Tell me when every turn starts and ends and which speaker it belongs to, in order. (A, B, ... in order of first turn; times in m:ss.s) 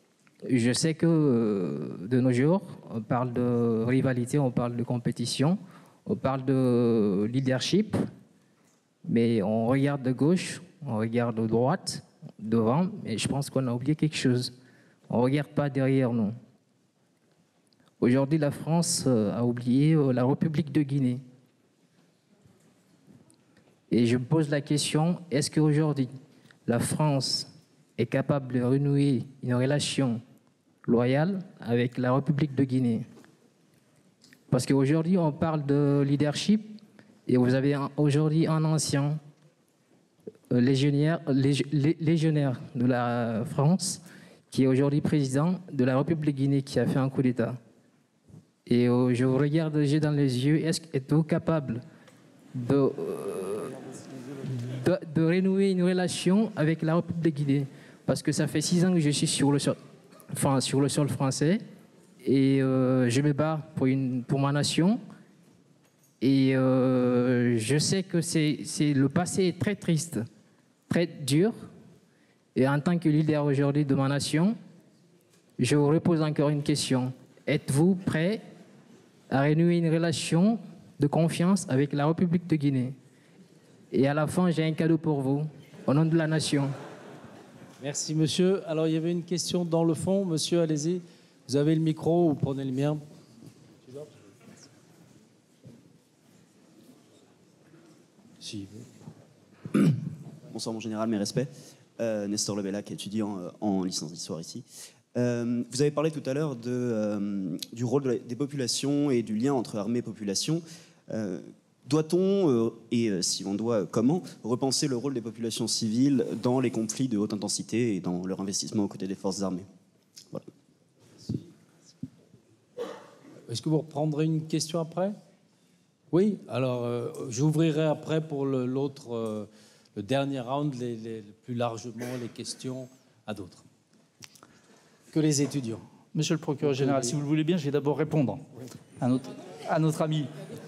0:00.4-0:08.0 A
0:09.0-0:14.5 A
0:15.1-0:16.4 A
0:18.0-0:21.2 A
0:23.9-0:26.1 A
0:26.6-0:30.2 A
0:30.8-0:33.0 A
0:34.5-0:39.2 A
0:40.5-0:47.6 A
0:48.7-0:51.8 A
0:52.5-0:53.8 A
0:54.4-0:59.8 A
1:00.3-1:01.6 A
1:02.2-1:05.0 A
1:06.2-1:10.3 A
1:10.9-1:11.6 A
1:12.5-1:14.6 A
1:15.6-1:18.4 A
1:19.3-1:22.9 A
1:23.9-1:26.7 A
1:27.8-1:33.0 B
1:33.8-1:34.1 B
1:38.4-1:38.9 B
1:40.5-1:59.7 C
2:01.2-2:01.5 B
2:03.5-2:05.1 B
2:06.1-2:13.6 B
2:15.1-2:15.8 B
2:16.1-2:18.4 D
2:16.6-2:17.2 B
2:19.0-2:20.3 D